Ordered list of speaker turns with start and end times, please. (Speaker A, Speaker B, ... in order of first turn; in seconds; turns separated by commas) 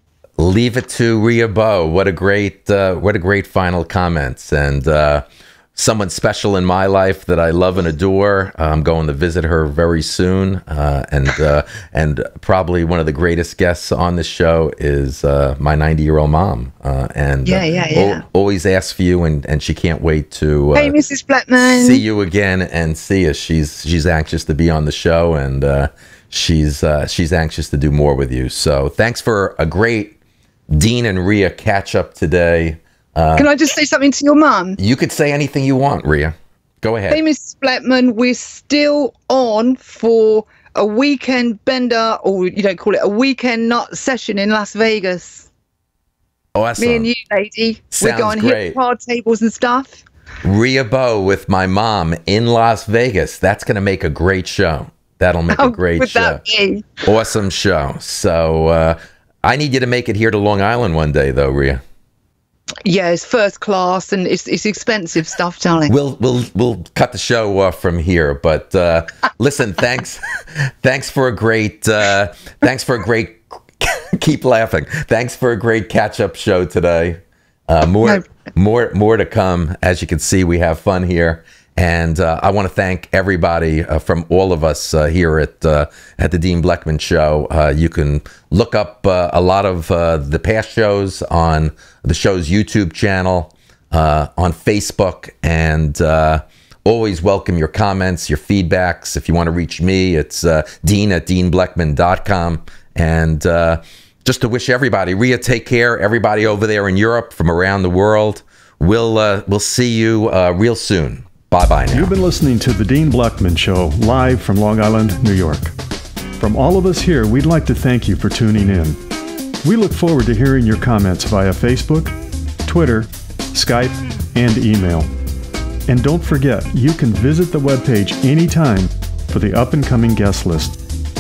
Speaker A: 0.4-21.0, Speaker B: 17.4-18.2, Speaker B: 20.8-22.0, Speaker A: 21.6-30.2, Speaker A: 30.7-33.5, Speaker B: 33.4-34.8, Speaker A: 34.8-37.2, Speaker B: 37.1-45.5, Speaker A: 46.5-47.1, Speaker B: 46.8-50.0, Speaker A: 47.9-48.8, Speaker A: 50.4-56.4, Speaker B: 55.5-57.0, Speaker A: 57.0-61.8, Speaker B: 62.9-65.9, Speaker A: 65.9-112.2, Speaker C: 111.9-115.7, Speaker C: 116.4-119.0, Speaker C: 119.6-125.1, Speaker C: 125.9-130.8